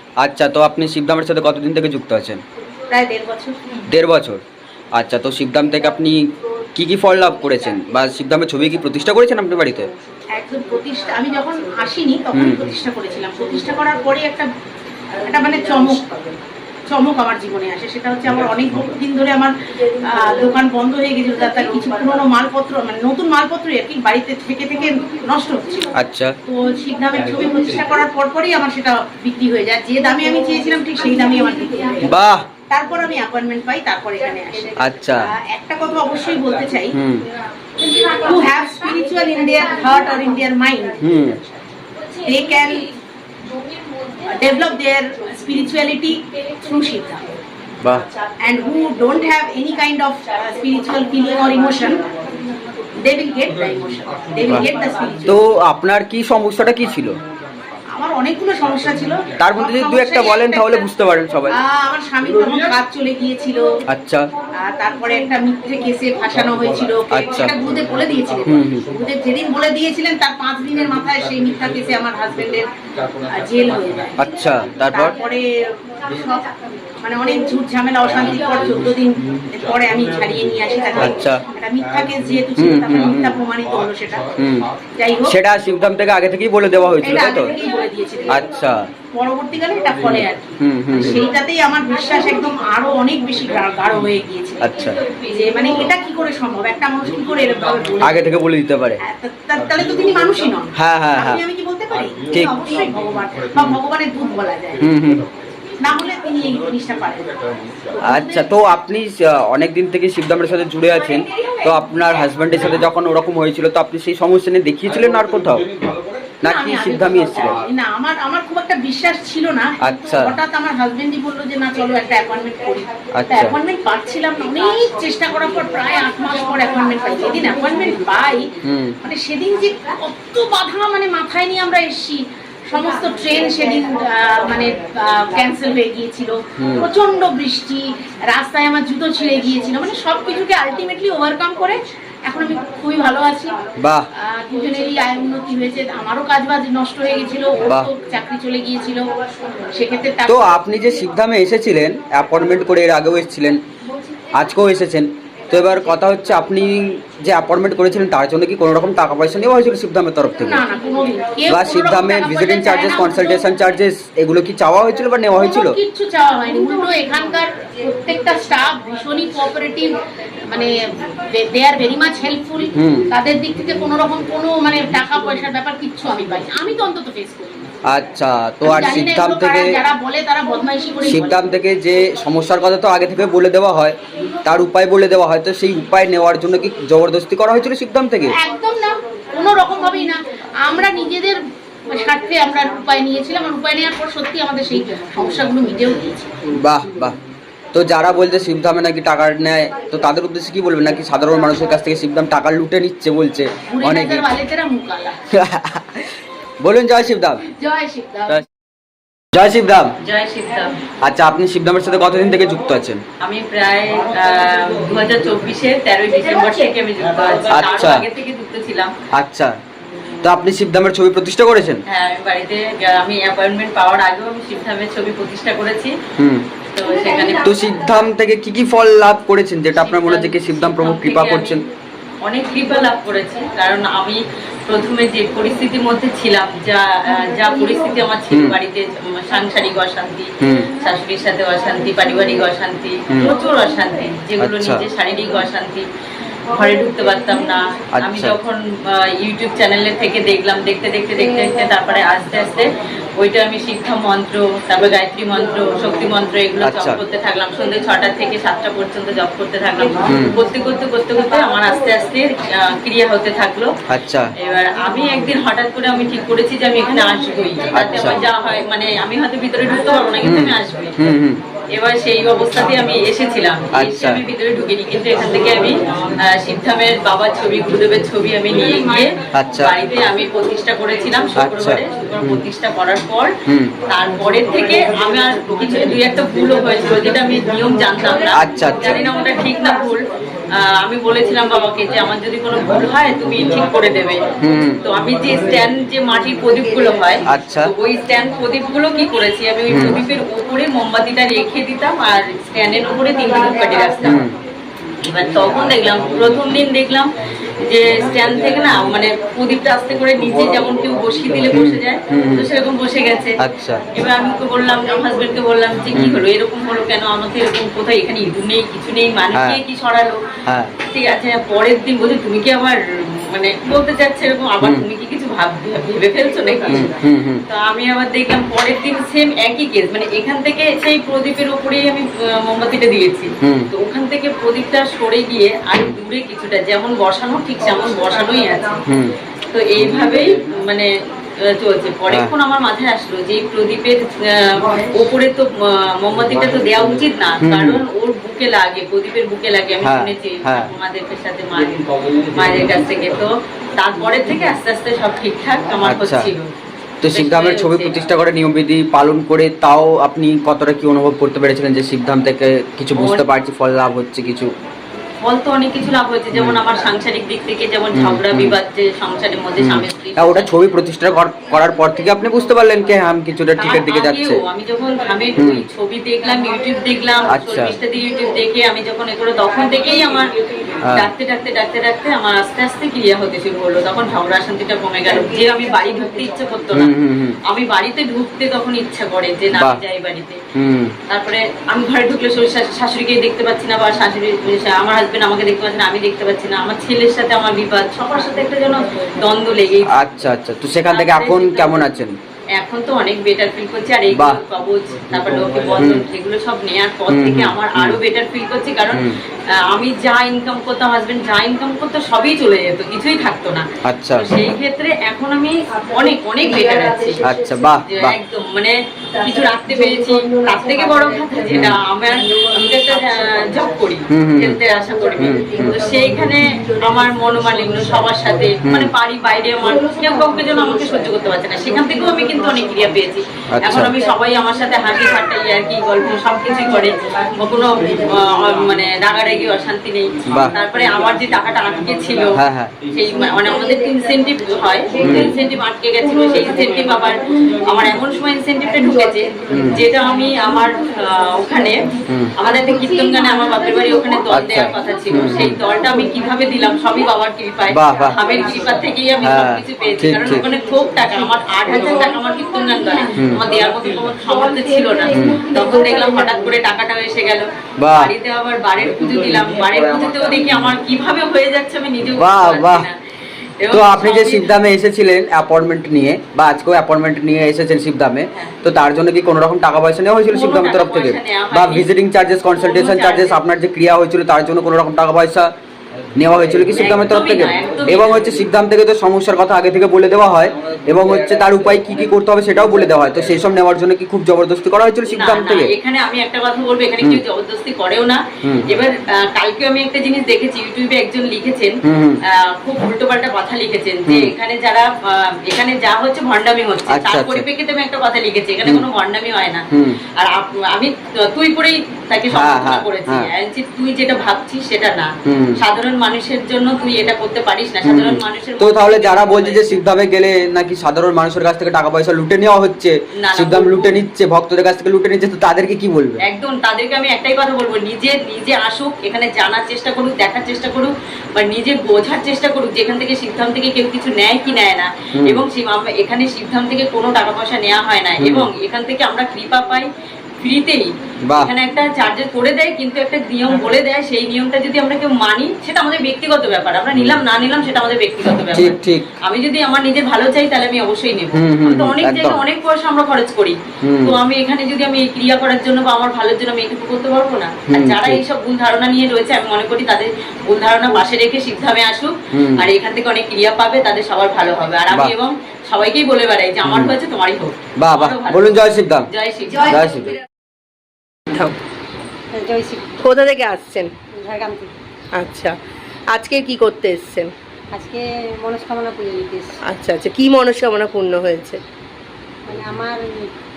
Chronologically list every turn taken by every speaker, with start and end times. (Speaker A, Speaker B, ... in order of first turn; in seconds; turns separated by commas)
Speaker A: 0.2-2.4, Speaker B: 2.9-3.9, Speaker A: 3.9-4.4, Speaker A: 5.0-6.2, Speaker A: 6.8-9.9, Speaker B: 10.4-14.5, Speaker A: 12.3-12.7, Speaker B: 15.2-16.1, Speaker B: 16.9-19.5, Speaker B: 20.1-25.9, Speaker A: 26.0-26.4, Speaker B: 26.5-32.1, Speaker A: 32.1-32.5, Speaker B: 32.7-37.0, Speaker A: 34.8-35.3, Speaker A: 36.9-37.2, Speaker B: 37.8-41.5, Speaker A: 41.0-41.4, Speaker B: 42.2-42.9, Speaker B: 44.2-47.4, Speaker B: 48.4-52.0, Speaker B: 53.0-55.4, Speaker A: 55.3-57.2, Speaker B: 58.0-60.9, Speaker A: 59.4-61.5, Speaker B: 61.5-63.6, Speaker A: 63.9-64.3, Speaker B: 64.6-72.7, Speaker A: 67.1-67.5, Speaker A: 68.5-68.9, Speaker B: 73.2-74.2, Speaker A: 74.2-75.2, Speaker B: 74.9-76.5, Speaker B: 77.0-84.3, Speaker A: 81.0-81.4, Speaker A: 82.6-83.3, Speaker A: 84.4-84.7, Speaker B: 85.0-85.4, Speaker A: 85.3-87.5, Speaker B: 87.0-88.5, Speaker A: 88.3-88.8, Speaker B: 89.1-98.3, Speaker A: 90.6-91.2, Speaker A: 94.6-95.0, Speaker A: 98.0-99.0, Speaker B: 99.0-104.8, Speaker A: 100.8-101.4, Speaker A: 102.3-102.5, Speaker A: 104.8-105.3, Speaker B: 105.8-107.3, Speaker B: 108.0-108.8, Speaker A: 108.1-115.7, Speaker B: 110.8-111.7, Speaker A: 116.4-117.6, Speaker B: 116.4-128.5, Speaker A: 119.8-120.3, Speaker A: 123.2-123.5, Speaker A: 128.7-129.0, Speaker B: 129.0-143.6, Speaker A: 136.6-136.8, Speaker A: 143.8-144.1, Speaker B: 144.2-149.1, Speaker B: 149.7-150.7, Speaker A: 150.3-153.6, Speaker A: 154.3-160.6, Speaker B: 160.4-163.4, Speaker A: 161.5-165.8, Speaker B: 165.3-177.7, Speaker A: 172.8-173.1, Speaker A: 177.8-179.8, Speaker B: 178.6-181.4, Speaker A: 181.0-188.3, Speaker B: 188.3-196.3, Speaker A: 196.6-197.2, Speaker A: 197.7-204.2, Speaker B: 203.7-205.2, Speaker A: 205.4-207.4, Speaker B: 207.5-208.4, Speaker A: 209.3-209.9, Speaker C: 210.0-210.8, Speaker A: 211.0-213.0, Speaker C: 213.2-218.9, Speaker A: 217.5-218.1, Speaker A: 219.1-219.5, Speaker A: 220.2-221.8, Speaker C: 221.9-225.9, Speaker A: 226.2-226.5, Speaker C: 226.7-227.6, Speaker A: 227.4-231.6, Speaker C: 229.7-231.6, Speaker C: 232.2-245.9, Speaker A: 238.3-238.6, Speaker A: 240.4-240.7, Speaker A: 244.4-244.8, Speaker C: 246.5-263.7, Speaker A: 248.0-248.4, Speaker A: 256.6-257.0, Speaker A: 260.1-260.4, Speaker A: 263.9-264.3, Speaker C: 264.4-271.0, Speaker A: 267.7-268.2, Speaker A: 270.2-271.4, Speaker C: 271.7-283.3, Speaker A: 273.8-274.2, Speaker A: 279.4-279.8, Speaker A: 281.4-282.4, Speaker C: 283.9-290.0, Speaker A: 288.4-289.0, Speaker C: 290.6-294.3, Speaker A: 294.4-294.8, Speaker C: 294.8-304.2, Speaker A: 297.3-297.7, Speaker A: 299.7-300.0, Speaker A: 304.0-304.4, Speaker C: 305.0-307.1, Speaker C: 307.6-313.4, Speaker A: 311.5-312.5, Speaker A: 313.4-313.9, Speaker C: 313.9-320.2, Speaker A: 315.9-316.2, Speaker A: 319.3-319.6, Speaker A: 320.5-320.7, Speaker C: 320.8-338.8, Speaker A: 326.7-327.4, Speaker A: 333.4-333.7, Speaker A: 338.9-339.1, Speaker C: 339.5-340.9, Speaker C: 341.4-356.5, Speaker A: 347.4-347.8, Speaker A: 349.8-350.7, Speaker A: 355.8-356.3, Speaker A: 357.0-364.6, Speaker C: 357.1-358.0, Speaker C: 362.9-363.2, Speaker C: 365.2-370.8, Speaker A: 366.3-366.6, Speaker A: 367.9-368.6, Speaker A: 369.6-374.4, Speaker C: 373.6-380.3, Speaker A: 375.4-375.6, Speaker A: 377.3-377.8, Speaker C: 380.9-386.9, Speaker A: 386.7-387.4, Speaker C: 387.5-390.4, Speaker A: 389.5-389.8, Speaker A: 390.6-390.9, Speaker C: 391.1-399.9, Speaker A: 399.9-402.1, Speaker C: 400.9-401.9, Speaker C: 402.6-417.2, Speaker A: 404.1-404.4, Speaker A: 405.8-406.1, Speaker A: 407.1-408.0, Speaker A: 408.9-409.2, Speaker A: 413.9-414.3, Speaker A: 417.2-418.2, Speaker C: 417.8-442.4, Speaker A: 421.5-421.8, Speaker A: 424.1-424.6, Speaker A: 425.2-425.8, Speaker A: 428.6-428.9, Speaker A: 433.6-433.9, Speaker A: 440.3-440.5, Speaker A: 442.4-442.7, Speaker C: 442.9-451.8, Speaker A: 445.0-445.4, Speaker A: 449.5-449.8, Speaker C: 452.4-472.9, Speaker A: 454.3-455.6, Speaker A: 457.7-458.2, Speaker A: 459.2-460.4, Speaker A: 463.2-463.5, Speaker A: 465.1-465.5, Speaker A: 467.8-468.1, Speaker A: 472.1-472.9, Speaker C: 473.6-474.5, Speaker A: 473.7-485.5, Speaker C: 478.3-478.6, Speaker C: 480.3-481.9, Speaker C: 482.4-483.4, Speaker A: 486.1-495.7, Speaker C: 486.7-488.4, Speaker C: 495.1-501.8, Speaker A: 501.8-502.2, Speaker C: 502.5-509.6, Speaker A: 504.1-504.3, Speaker A: 506.9-507.4, Speaker A: 509.7-510.0, Speaker C: 510.2-519.8, Speaker A: 512.3-513.3, Speaker A: 515.3-515.6, Speaker A: 517.8-526.2, Speaker C: 523.2-524.0, Speaker C: 526.3-539.9, Speaker A: 535.2-535.4, Speaker A: 538.2-538.5, Speaker C: 540.4-569.9, Speaker A: 547.0-547.2, Speaker A: 548.5-549.1, Speaker A: 551.3-552.4, Speaker A: 553.8-554.2, Speaker A: 557.7-558.2, Speaker A: 562.3-562.7, Speaker A: 566.6-567.0, Speaker A: 567.8-569.1, Speaker A: 569.7-570.1, Speaker D: 572.4-572.9, Speaker E: 573.0-573.9, Speaker D: 574.1-574.7, Speaker E: 575.2-575.6, Speaker E: 576.1-577.3, Speaker D: 577.8-579.5, Speaker E: 579.7-581.6, Speaker D: 582.5-583.0